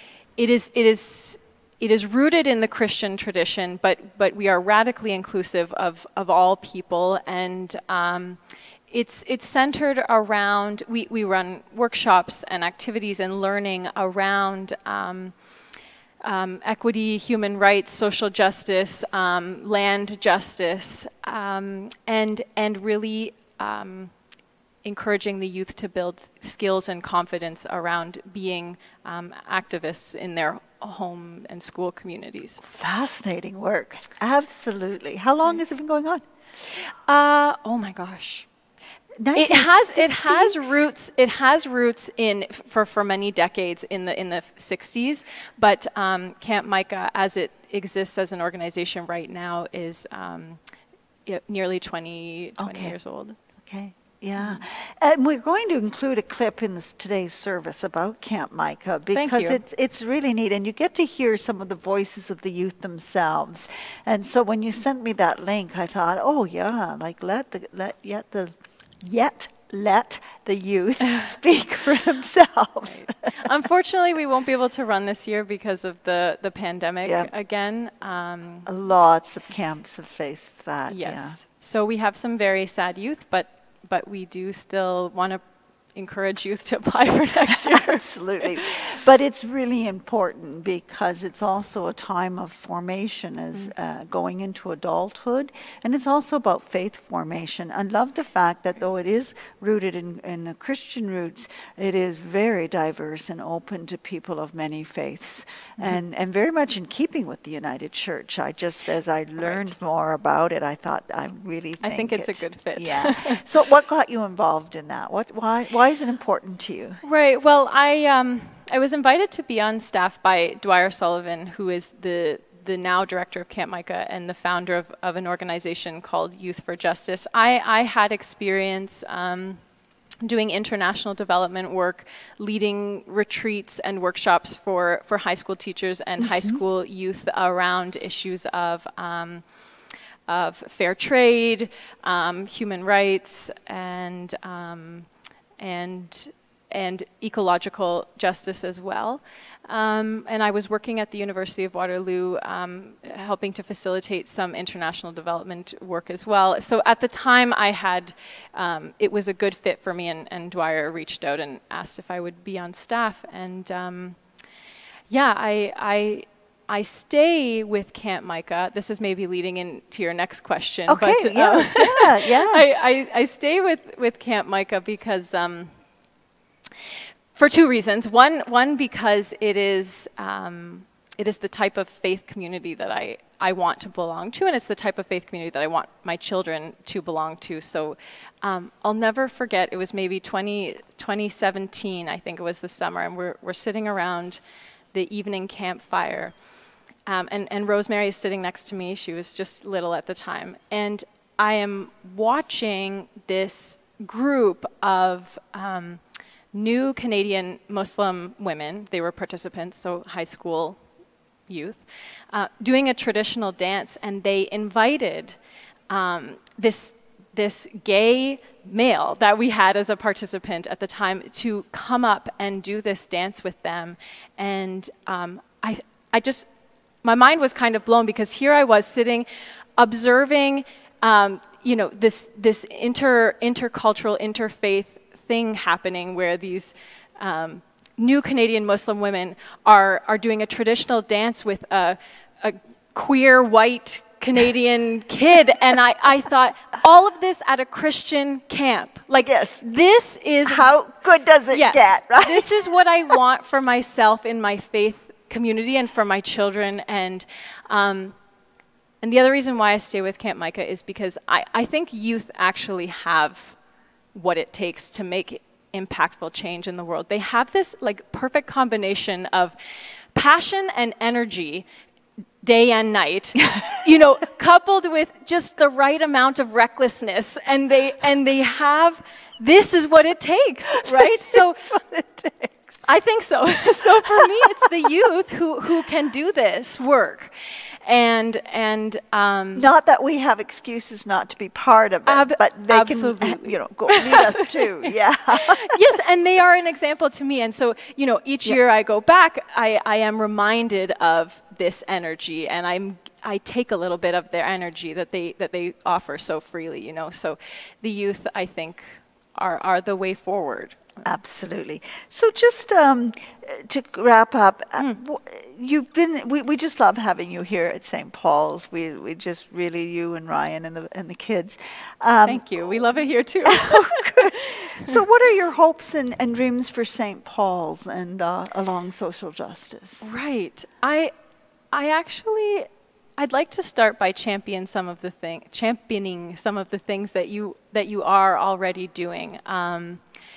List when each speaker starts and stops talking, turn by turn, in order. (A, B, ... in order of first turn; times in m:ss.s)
0:00.4-0:15.4 A
0:16.2-0:24.1 A
0:24.8-0:32.6 A
0:32.6-0:36.2 B
0:37.1-0:38.5 A
0:39.2-0:40.8 B
0:39.4-0:50.6 A
0:51.3-0:53.4 A
0:52.6-0:53.0 B
0:53.6-1:13.1 B
0:54.4-0:54.6 A
0:59.1-0:59.6 A
1:12.8-1:18.7 A
1:17.0-1:17.3 B
1:18.7-1:21.4 B
1:20.9-1:25.4 A
1:25.9-1:28.5 A
1:27.7-1:57.0 B
1:49.4-1:49.7 A
1:51.8-1:53.4 A
1:57.0-2:09.6 A
2:10.2-2:19.5 A
2:16.2-2:16.6 B
2:20.3-2:44.2 A
2:45.1-2:55.7 A
2:50.9-2:52.6 B
2:57.4-3:14.4 A
3:14.9-3:16.4 A
3:17.1-3:26.0 A
3:26.5-3:30.8 A
3:31.5-3:35.4 A
3:35.9-3:46.5 A
3:47.0-4:10.7 A
4:09.2-4:09.6 B
4:10.4-4:12.6 B
4:11.5-4:18.2 A
4:19.0-4:23.6 A
4:24.1-4:29.6 A
4:30.1-4:31.7 A
4:32.4-4:41.7 A
4:40.8-4:42.8 B
4:42.8-4:47.3 A
4:44.2-4:44.7 B
4:47.8-4:49.7 A
4:49.6-4:55.8 B
4:52.1-4:54.9 A
4:55.5-5:11.0 A
5:11.0-5:30.1 B
5:22.2-5:24.9 A
5:30.0-5:31.1 A
5:31.7-5:40.0 A